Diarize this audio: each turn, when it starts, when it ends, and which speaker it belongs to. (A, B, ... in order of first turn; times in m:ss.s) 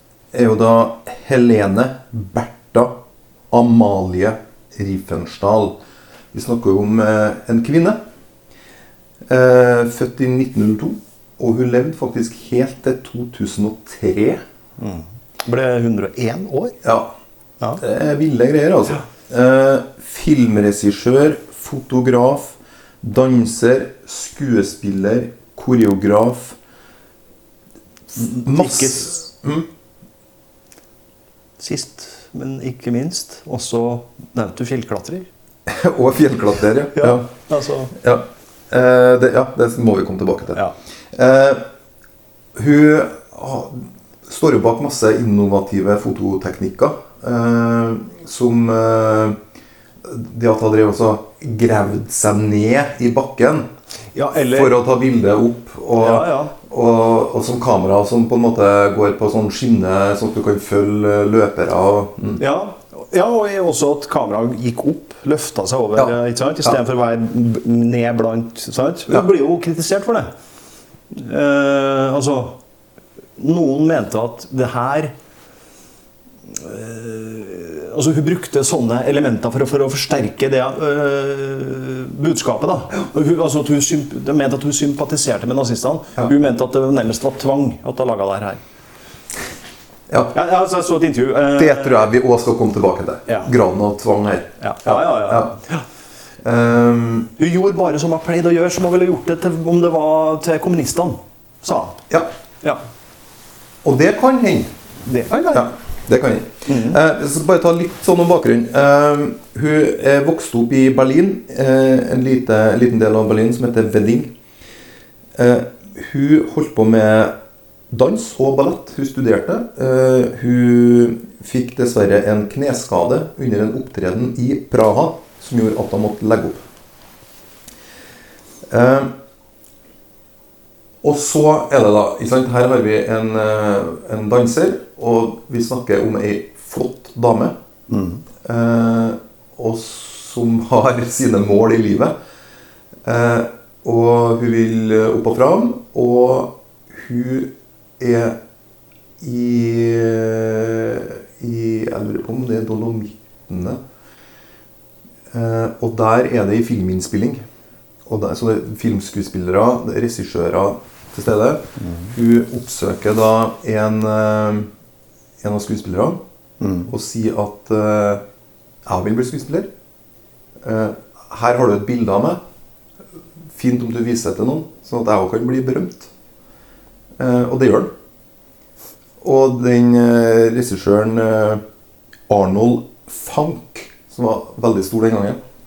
0:00.3-0:03.0 A
0:03.5-0:05.8 A
0:06.3-0:08.0 A
0:09.3-0:14.4 A
0:14.8-0:16.8 B
0:16.8-0:17.1 A
0:17.8-0:26.6 A
0:28.2-0:29.7 A
0:28.2-0:29.2 B
0:31.6-0:35.3 B
0:35.7-0:37.3 A
0:36.9-0:38.0 B
0:37.9-0:40.6 A
0:41.1-0:41.6 A
0:42.6-0:49.4 A
0:50.0-0:53.7 A
0:54.1-0:54.8 B
0:54.5-1:02.4 A
0:56.0-0:56.5 B
1:02.4-1:10.3 B
1:06.0-1:06.8 A
1:11.1-1:12.6 B
1:13.4-1:15.1 B
1:16.5-1:28.6 B
1:30.1-1:30.4 A
1:30.3-1:32.1 B
1:31.6-1:35.6 A
1:34.6-1:35.8 B
1:36.4-1:37.3 A
1:37.4-1:42.1 B
1:43.8-1:44.7 A
1:45.1-1:45.7 B
1:45.5-1:54.3 A
1:46.7-1:47.0 B
1:55.4-1:57.4 A
1:57.9-2:06.6 A
2:08.7-2:09.1 A
2:11.0-2:17.6 A
2:17.9-2:18.2 B
2:18.4-2:22.1 A
2:23.0-2:28.4 A
2:29.2-2:33.8 A
2:35.3-2:37.4 A
2:38.1-2:44.7 A
2:41.8-2:42.1 B
2:45.4-2:46.2 A
2:46.6-2:46.9 B
2:46.9-2:48.2 A
2:48.9-2:49.7 A
2:50.6-2:52.4 A
2:53.6-2:56.1 A
2:57.2-2:57.9 A
2:59.2-3:01.6 A
3:02.3-3:05.4 A